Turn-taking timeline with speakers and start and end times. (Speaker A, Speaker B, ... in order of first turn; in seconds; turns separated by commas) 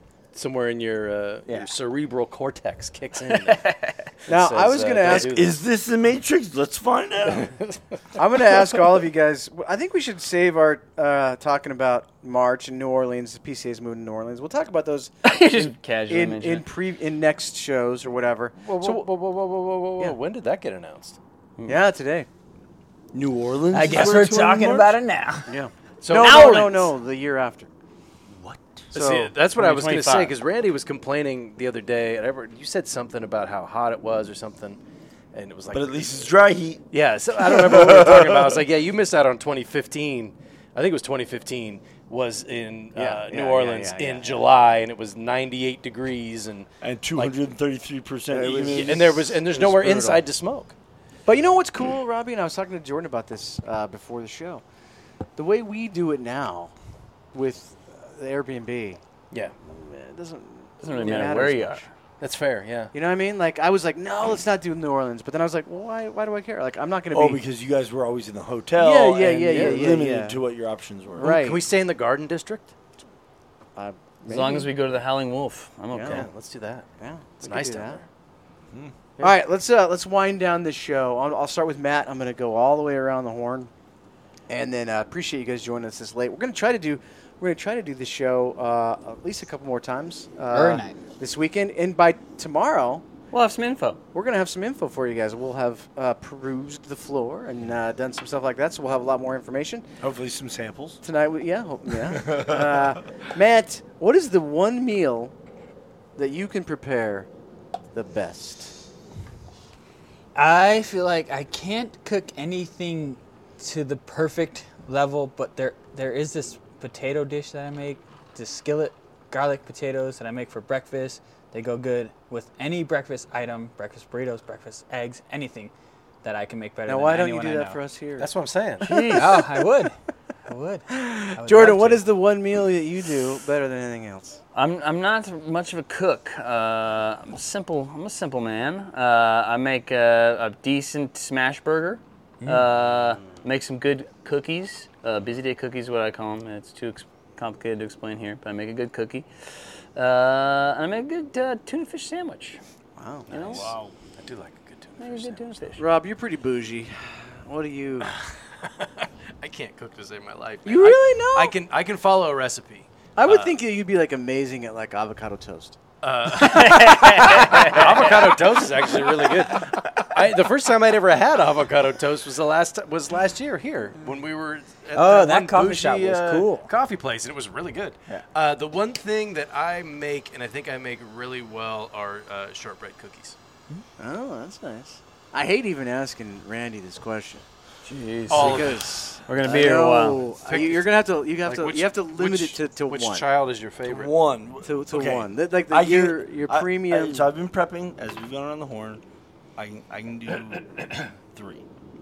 Speaker A: 0.3-3.6, Speaker B: 3.3-4.1, Speaker A: 4.3-5.6, Speaker C: 4.3-5.4, Speaker D: 5.0-7.5, Speaker C: 8.1-19.1, Speaker B: 15.2-16.7, Speaker A: 18.6-21.2, Speaker C: 21.6-22.3, Speaker D: 23.1-24.9, Speaker E: 23.7-25.5, Speaker C: 25.5-27.7, Speaker A: 26.0-26.8, Speaker B: 26.1-26.7, Speaker D: 28.3-28.8, Speaker C: 28.9-29.3, Speaker A: 28.9-34.8, Speaker B: 29.6-30.3, Speaker A: 35.3-36.3, Speaker D: 35.7-36.8, Speaker A: 36.9-47.4, Speaker D: 37.4-38.6, Speaker C: 43.0-44.5, Speaker D: 46.8-50.2, Speaker C: 48.3-49.0, Speaker A: 48.5-50.7, Speaker C: 51.3-54.6, Speaker C: 55.4-56.7, Speaker C: 57.3-59.0, Speaker C: 59.7-61.8, Speaker B: 60.8-61.9, Speaker A: 62.2-62.9, Speaker C: 62.9-67.4, Speaker D: 67.1-71.3, Speaker C: 68.7-70.4, Speaker C: 71.1-71.6, Speaker A: 71.2-72.7, Speaker C: 73.8-74.7, Speaker B: 74.3-76.3, Speaker C: 75.9-76.3, Speaker A: 76.0-76.9, Speaker C: 77.0-78.0, Speaker A: 77.4-78.0, Speaker C: 79.2-83.7, Speaker C: 84.5-93.0, Speaker E: 90.5-91.0, Speaker B: 93.3-94.0, Speaker C: 94.1-99.9, Speaker D: 100.0-101.0, Speaker C: 101.0-105.3, Speaker D: 102.1-102.8, Speaker C: 106.2-107.3, Speaker C: 107.9-108.7, Speaker E: 110.3-125.7, Speaker E: 126.2-127.8, Speaker C: 126.9-128.3, Speaker A: 128.2-128.9, Speaker B: 128.8-129.6, Speaker E: 128.9-129.9, Speaker E: 130.5-132.1, Speaker C: 130.9-134.4, Speaker B: 134.5-149.3, Speaker E: 142.4-142.7, Speaker B: 149.9-152.6, Speaker C: 152.9-153.6, Speaker B: 153.3-153.7, Speaker A: 153.3-155.6, Speaker B: 155.0-155.8, Speaker C: 155.8-158.1, Speaker A: 158.1-163.6, Speaker C: 160.6-161.6, Speaker C: 163.2-165.8, Speaker A: 166.0-183.4, Speaker B: 166.3-168.3, Speaker E: 174.9-176.7, Speaker C: 184.0-187.4, Speaker B: 187.8-188.7, Speaker A: 188.3-189.1, Speaker C: 188.3-193.3, Speaker B: 189.3-190.3, Speaker A: 190.4-194.2, Speaker D: 193.8-199.0, Speaker C: 194.6-197.3, Speaker D: 199.6-201.6